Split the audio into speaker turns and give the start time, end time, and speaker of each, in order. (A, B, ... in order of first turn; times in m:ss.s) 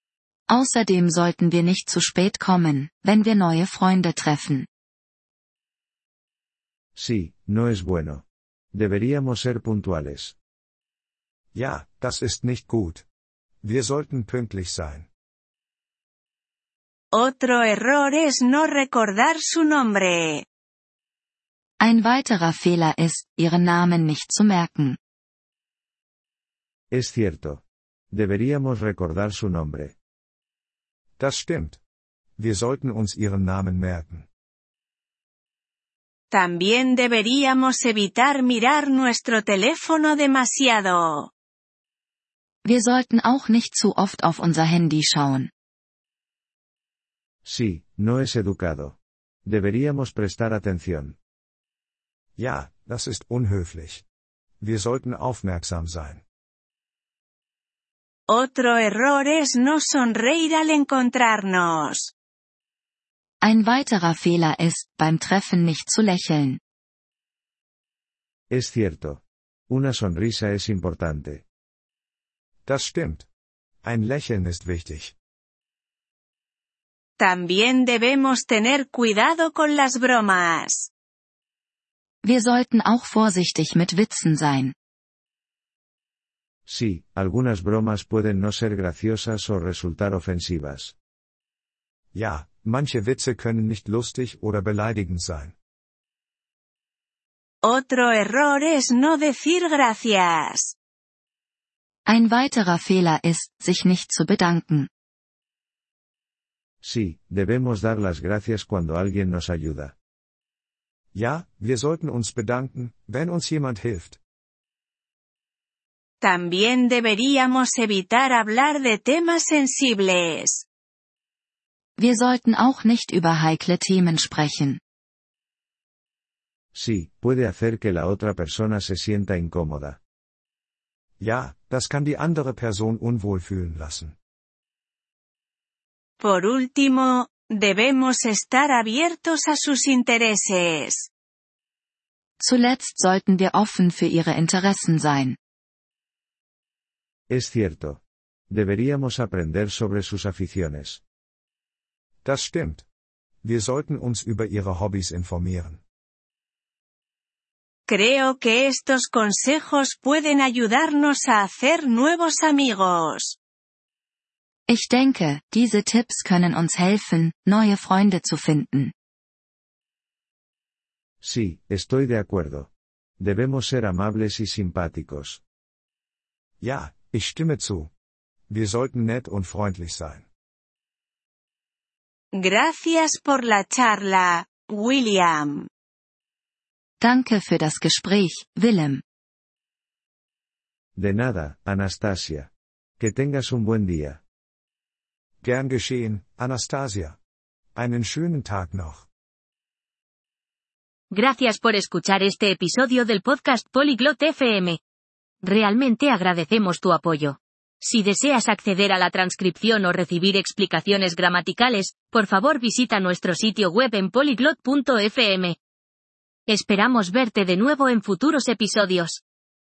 0:00.5-0:04.7 A
0:06.9-0:10.4 B
0:11.5-0:13.0 C
0:13.6-0:15.1 C
0:17.1-0:20.4 D
0:21.8-0:25.0 A
0:26.9-0:30.0 B
0:31.2-0:31.8 C
0:32.4-0:34.3 C
0:36.3-0:41.3 D
0:42.6-0:45.5 A
0:47.4-0:51.2 B
0:52.4-0:54.0 C
0:54.6-0:56.2 C
0:58.3-1:02.1 D
1:03.4-1:06.6 A
1:08.5-1:11.4 B
1:12.6-1:13.3 C
1:13.8-1:15.1 C
1:17.2-1:20.9 D
1:22.2-1:24.7 A
1:26.6-1:30.9 B
1:32.1-1:35.5 C
1:37.6-1:40.7 D
1:42.1-1:44.9 A
1:46.8-1:49.9 B
1:51.1-1:54.2 C
1:56.2-2:00.6 D
2:02.0-2:04.8 A
2:06.7-2:10.0 B
2:11.2-2:14.2 C
2:16.2-2:21.1 D
2:22.4-2:25.4 A
2:27.3-2:31.0 B
2:32.2-2:32.8 C
2:33.4-2:35.8 C
2:37.9-2:43.4 D
2:44.7-2:48.9 A
2:51.2-2:55.4 B
2:56.6-2:57.9 C
2:58.5-3:00.2 C
3:02.3-3:05.7 D
3:07.0-3:09.0 A
3:11.0-3:14.2 B
3:15.4-3:17.2 C
3:17.7-3:19.1 C
3:21.1-3:24.8 E
3:25.4-3:35.6 E
3:36.5-3:39.2 E